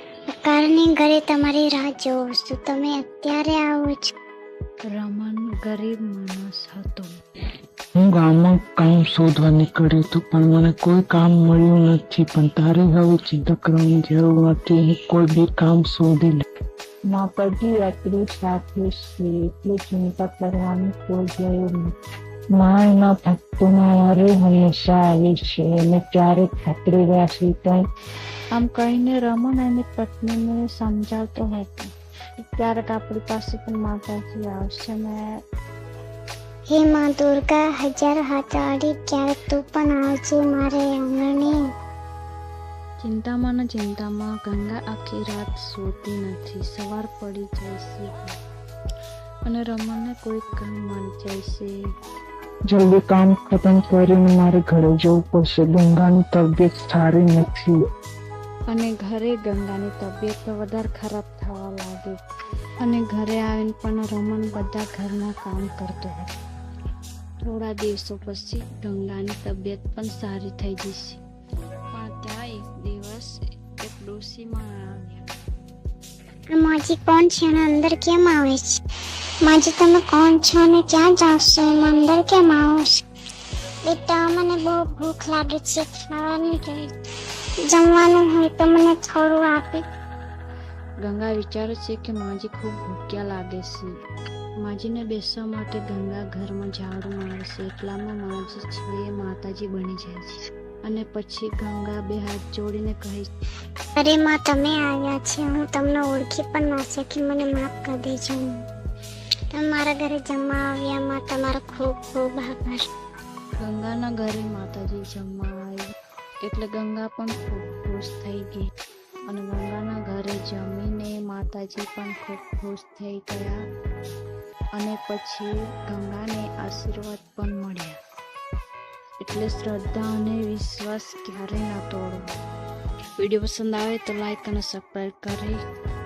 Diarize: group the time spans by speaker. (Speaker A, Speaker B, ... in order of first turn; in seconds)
Speaker A: 0.4-4.0, 36.7-41.6, 76.5-78.8, 79.4-82.9, 83.9-86.9, 87.7-89.8, 104.0-108.6, 109.5-112.8
Speaker B: 4.9-7.1, 28.5-35.2, 43.0-48.4, 49.4-51.7, 58.7-62.2, 62.8-66.3, 67.4-71.2, 71.9-75.3, 91.0-93.9, 94.6-103.3, 113.6-115.8, 116.4-118.6, 119.3-123.6, 124.7-128.0, 129.2-132.3, 133.2-135.6
Speaker C: 8.0-16.4, 17.1-21.9, 22.5-27.8, 52.7-57.8